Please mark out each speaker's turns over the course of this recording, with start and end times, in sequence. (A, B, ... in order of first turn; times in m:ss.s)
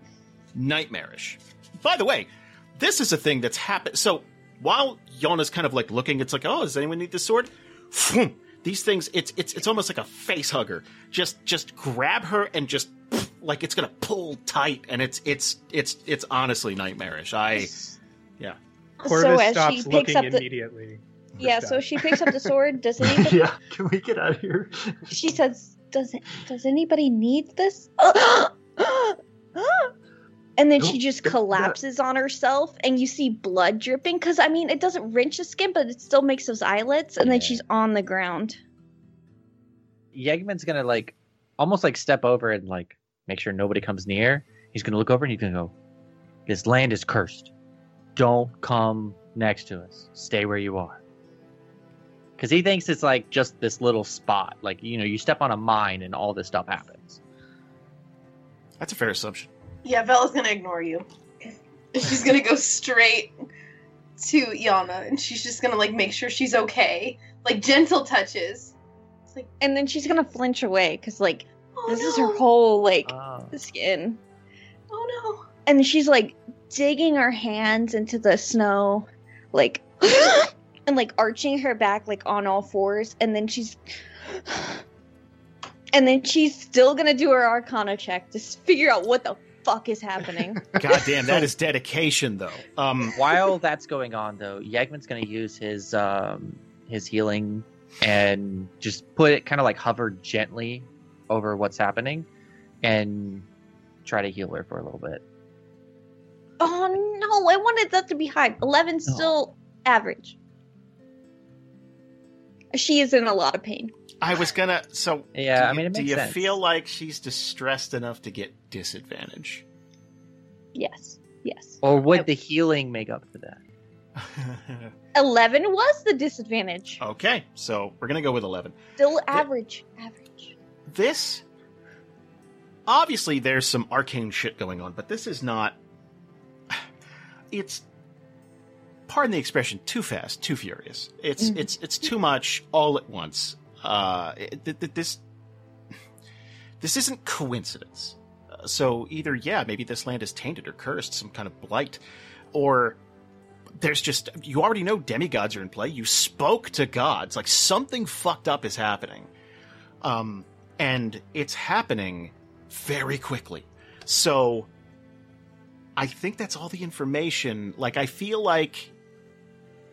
0:00.5-0:17.7 A
0:19.0-0:20.4 B
0:19.0-0:22.5 C
0:21.4-0:23.4 B
0:23.0-0:25.1 D
0:25.1-0:29.9 B
0:30.6-0:38.6 B
0:30.8-0:31.8 D
0:37.2-0:37.6 E
0:40.1-0:45.7 E
0:46.5-0:47.5 E
0:48.2-0:51.0 E
0:52.4-0:57.2 E
0:58.8-0:59.5 A
0:59.8-1:01.0 F
1:01.9-1:03.3 F
1:04.2-1:08.7 F
1:09.6-1:14.2 B
1:11.8-1:12.4 F
1:13.0-1:13.6 E
1:14.9-1:15.5 F
1:15.6-1:24.8 B
1:25.9-1:30.8 B
1:30.8-1:33.2 A
1:33.1-1:42.3 E
1:42.8-1:43.4 E
1:44.0-1:45.2 E
1:46.6-1:50.4 B
1:49.1-1:49.3 E
1:52.7-1:53.9 B
1:54.2-1:59.6 A
1:55.3-1:56.6 E
2:00.7-2:02.3 B
2:01.8-2:03.6 E
2:04.2-2:04.9 A
2:05.1-2:07.0 B
2:07.0-2:08.8 A
2:09.0-2:10.5 B
2:10.9-2:11.4 A
2:12.9-2:15.8 A
2:17.5-2:17.8 A
2:19.1-2:25.2 A
2:26.8-2:32.0 A
2:32.5-2:33.0 A
2:33.8-2:39.3 A
2:40.0-2:44.7 A
2:46.0-2:48.9 A